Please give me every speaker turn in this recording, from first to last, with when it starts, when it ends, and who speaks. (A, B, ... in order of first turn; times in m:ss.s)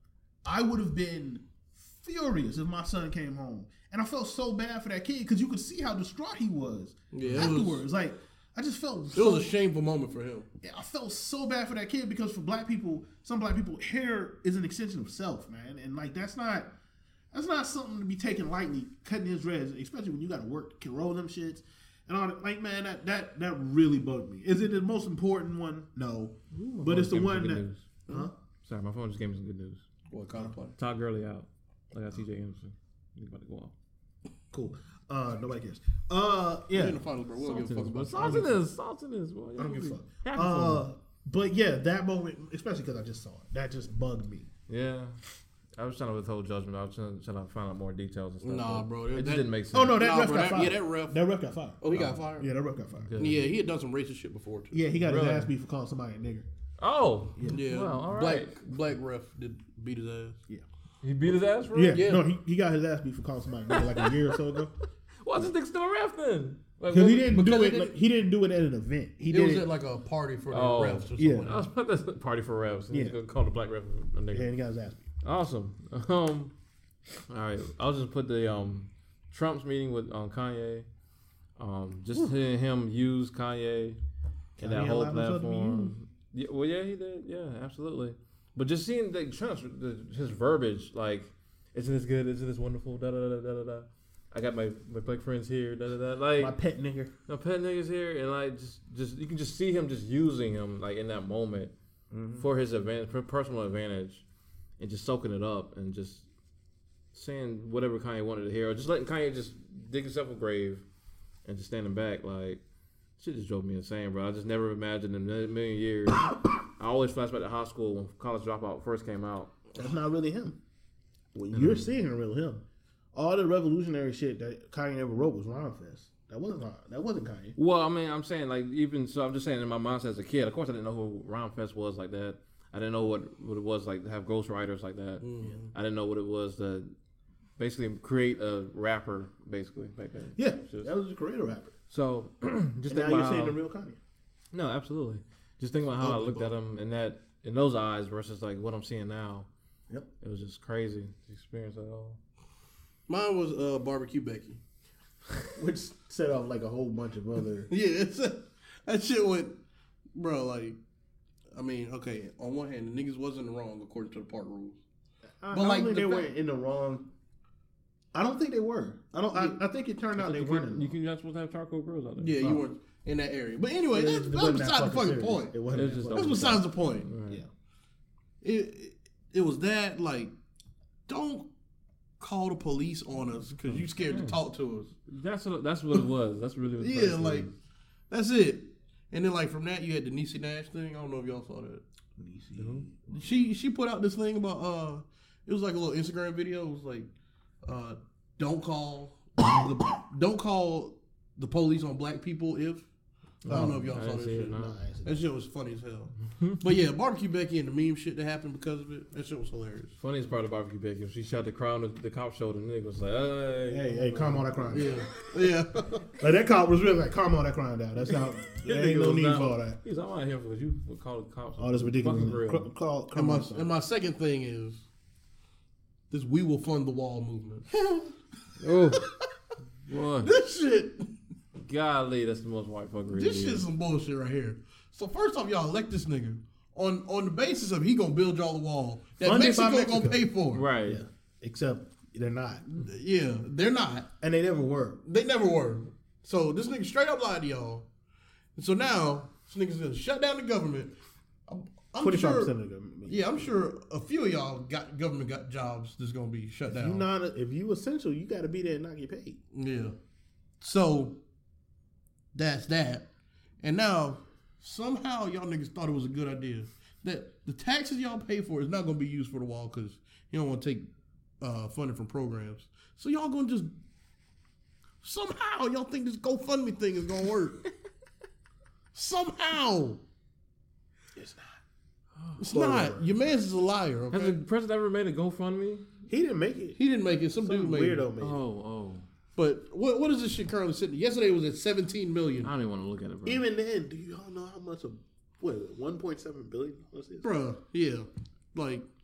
0:00.4-0:09.5 A
0:07.1-0:07.8 B
0:09.1-0:10.5 B
0:10.6-0:16.7 A
0:17.3-0:28.3 A
0:26.5-0:28.1 C
0:28.6-0:29.8 C
0:30.1-0:30.7 B
0:30.8-0:33.7 C
0:34.5-0:37.0 A
0:36.7-0:38.6 B
0:37.4-0:40.8 C
0:38.1-0:38.6 A
0:39.6-0:44.5 A
0:44.7-0:45.2 C
0:45.8-0:50.0 C
0:48.4-0:51.2 B
0:49.7-0:51.8 A
0:51.8-0:52.5 B
0:52.4-0:53.2 A
0:53.0-0:53.5 C
0:53.2-0:54.8 B
0:54.7-0:56.5 A
0:55.0-0:55.5 C
0:56.8-0:58.6 C
0:57.4-0:57.6 A
0:57.4-1:00.4 B
1:01.0-1:02.1 C
1:01.7-1:04.7 A
1:01.9-1:02.2 B
1:03.7-1:04.3 C
1:05.2-1:07.6 C
1:06.9-1:09.7 A
1:07.3-1:07.9 B
1:09.3-1:11.7 B
1:10.5-1:14.5 C
1:11.2-1:11.5 A
1:12.9-1:13.2 A
1:14.3-1:15.1 A
1:15.2-1:16.5 C
1:17.3-1:20.9 C
1:21.6-1:24.0 C
1:24.6-1:26.0 A
1:24.6-1:36.6 C
1:36.4-1:37.1 A
1:37.3-1:41.7 C
1:42.1-1:42.5 A
1:42.4-1:44.2 C
1:44.8-1:46.2 C
1:47.1-1:50.8 C
1:51.4-1:52.6 C
1:53.2-1:59.5 C
1:59.7-2:00.6 A
2:01.3-2:07.6 A
2:01.5-2:01.9 C
2:07.6-2:16.9 C
2:15.2-2:15.7 B
2:17.6-2:20.9 C
2:20.4-2:21.7 A
2:21.9-2:23.6 C
2:22.9-2:24.0 A
2:24.5-2:29.5 C
2:26.0-2:26.5 B
2:30.2-2:32.2 C
2:33.1-2:34.6 B
2:35.6-2:37.7 A
2:37.7-2:39.6 B
2:40.2-2:40.8 B
2:41.5-2:44.8 B
2:45.4-2:47.1 A
2:45.5-2:46.3 B
2:48.1-2:51.0 A
2:50.2-2:52.4 C
2:52.2-2:57.1 B
2:53.9-2:56.6 A
2:55.7-2:57.4 C
2:58.4-3:00.3 B
3:01.1-3:01.5 B
3:02.2-3:04.9 B
3:04.0-3:04.4 C
3:05.1-3:07.5 C
3:06.8-3:07.5 B
3:08.1-3:11.8 B
3:12.2-3:13.1 A
3:12.6-3:12.8 C
3:13.1-3:17.1 B
3:17.6-3:22.9 B
3:23.4-3:30.0 B
3:23.4-3:24.8 C
3:23.5-3:23.9 A
3:24.5-3:25.2 A
3:30.0-3:34.9 C
3:33.7-3:35.0 A
3:34.7-3:36.1 B
3:36.2-3:39.8 A
3:38.1-3:42.7 C
3:41.6-3:43.7 A
3:43.2-3:44.9 B
3:46.1-3:47.7 B
3:48.6-3:49.1 C
3:49.9-3:50.3 C
3:50.2-3:51.1 B
3:51.6-3:53.6 C
3:53.1-4:00.7 B
3:59.2-4:00.2 A
4:00.5-4:01.0 C
4:00.8-4:02.6 A
4:02.6-4:04.1 B
4:04.2-4:05.0 A
4:05.0-4:07.9 B
4:08.6-4:10.9 B
4:11.5-4:12.5 B
4:12.0-4:13.5 A
4:13.1-4:17.1 B
4:16.7-4:19.4 A
4:19.5-4:20.0 B
4:20.6-4:21.2 B
4:22.3-4:23.1 B
4:23.6-4:30.9 B
4:31.4-4:33.7 B
4:35.0-4:37.6 B
4:38.9-4:40.0 B
4:41.2-4:41.6 A
4:42.2-4:42.4 C
4:42.4-4:44.4 B
4:42.5-4:43.1 A
4:44.1-4:45.9 C
4:46.1-4:46.8 A
4:46.8-4:48.1 B
4:47.4-4:48.4 A
4:48.2-4:49.1 C
4:49.4-4:52.5 B
4:52.4-4:53.4 C
4:53.2-4:57.3 A
4:57.2-4:58.9 B